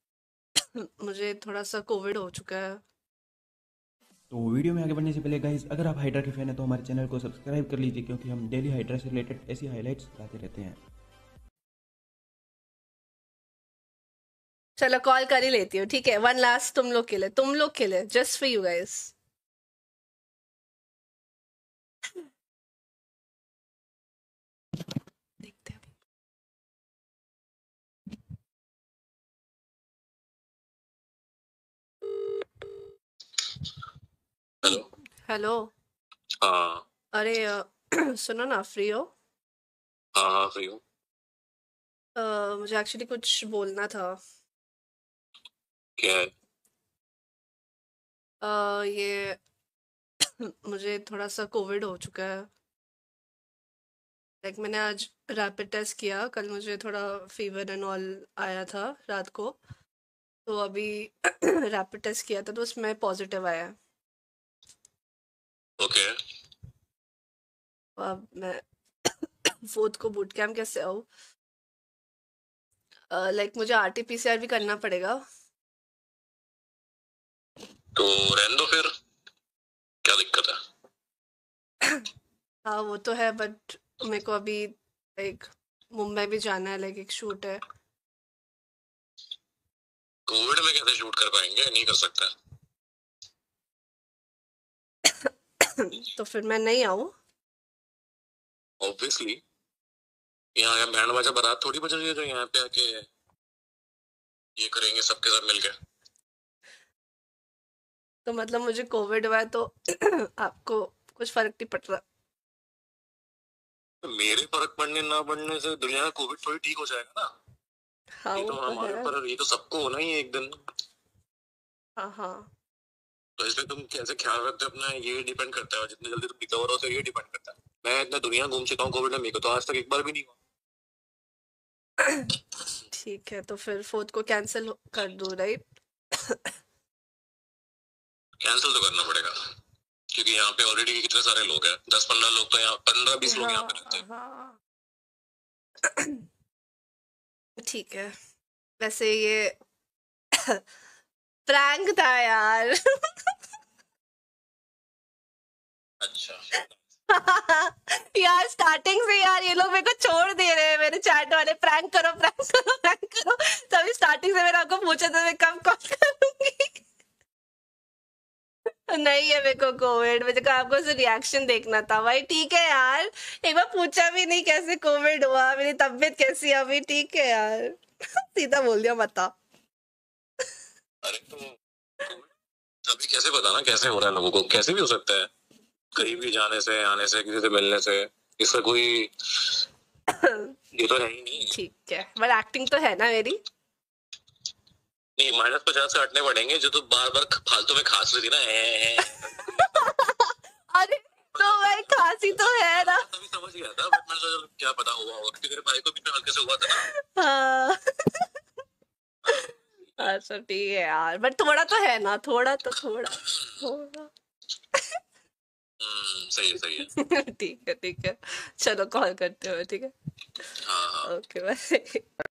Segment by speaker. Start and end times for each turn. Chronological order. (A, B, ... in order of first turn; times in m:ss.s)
0:00.8-0:02.8 A
0:04.3-0:10.8 B
0:14.8-0:19.1 A
0:25.4-0:25.9 A
0:34.6-0:35.7 A
0:36.4-0:36.8 C
0:37.1-0:39.1 A
0:40.2-0:40.8 C
0:42.2-0:44.2 A
0:46.0-0:46.3 C
0:48.4-0:49.4 A
0:50.4-0:52.5 A
0:54.4-0:59.6 A
1:00.5-1:03.8 A
1:05.8-1:06.1 C
1:08.0-1:11.1 A
1:13.1-1:15.2 A
1:18.0-1:18.9 C
1:20.0-1:20.6 C
1:22.6-1:27.6 A
1:30.3-1:32.3 C
1:35.1-1:37.1 A
1:38.8-1:39.4 C
1:40.6-1:43.0 C
1:44.6-1:45.7 C
1:48.3-1:52.0 A
1:54.0-1:57.3 C
1:58.2-1:59.1 A
1:58.4-2:00.5 C
2:02.0-2:02.5 A
2:03.4-2:10.4 C
2:12.0-2:12.3 A
2:12.9-2:15.6 A
2:16.2-2:16.5 A
2:18.4-2:19.4 C
2:20.1-2:24.0 C
2:23.2-2:24.6 A
2:25.9-2:26.2 A
2:27.6-2:28.1 A
2:28.8-2:29.6 A
2:31.5-2:33.1 A
2:36.0-2:36.7 C
2:37.1-2:46.8 A
2:48.9-2:59.3 A
3:01.0-3:01.4 C
3:02.9-3:05.3 C
3:06.0-3:09.6 C
3:10.1-3:10.5 A
3:10.8-3:11.5 C
3:11.4-3:13.4 A
3:15.2-3:19.9 C
3:19.4-3:23.1 A
3:21.3-3:26.9 C
3:26.7-3:28.3 A
3:29.3-3:34.1 A
3:35.8-3:36.9 C
3:37.0-3:40.5 A
3:40.6-3:41.1 C
3:41.0-3:42.1 A